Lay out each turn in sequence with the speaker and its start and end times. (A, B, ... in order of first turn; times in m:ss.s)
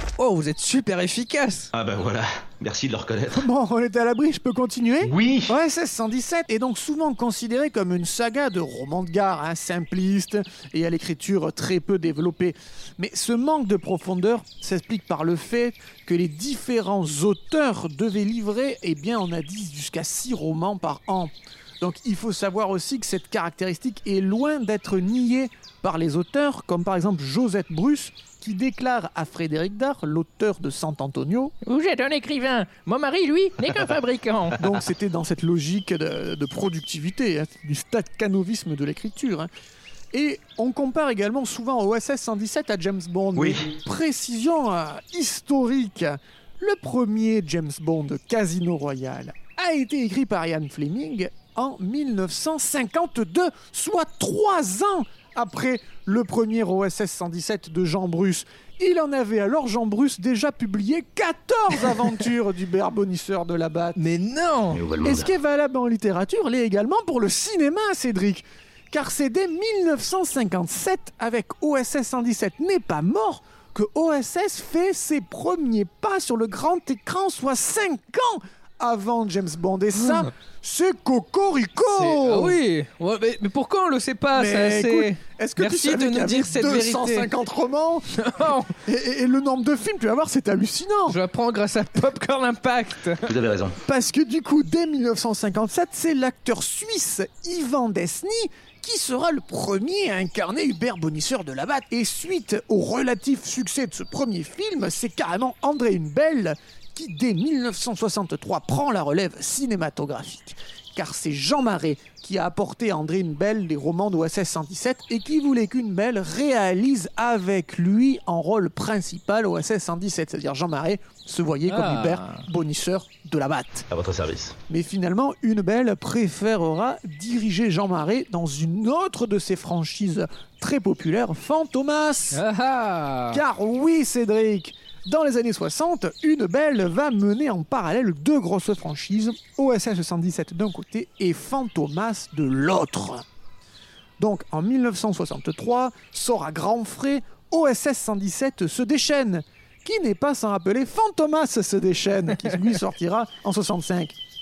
0:00.2-0:01.7 A
0:01.7-0:03.5 B
0:03.3-0:31.5 C
0:05.0-0:05.5 B
0:31.6-0:34.6 A
0:34.6-0:39.5 C
0:40.1-1:04.0 C
0:43.4-0:43.7 B
1:04.0-1:04.8 A
1:04.7-1:05.3 B
1:05.0-1:22.6 C
1:21.9-1:27.3 A
1:24.3-1:28.2 C
1:28.2-1:28.8 A
1:28.8-1:31.2 C
1:31.1-1:33.2 A
1:33.2-1:33.8 B
1:33.8-2:03.9 C
2:01.7-2:02.4 A
2:03.9-2:04.6 B
2:04.7-2:12.4 C
2:12.3-2:13.4 A
2:13.3-2:23.2 C
2:24.2-2:34.2 C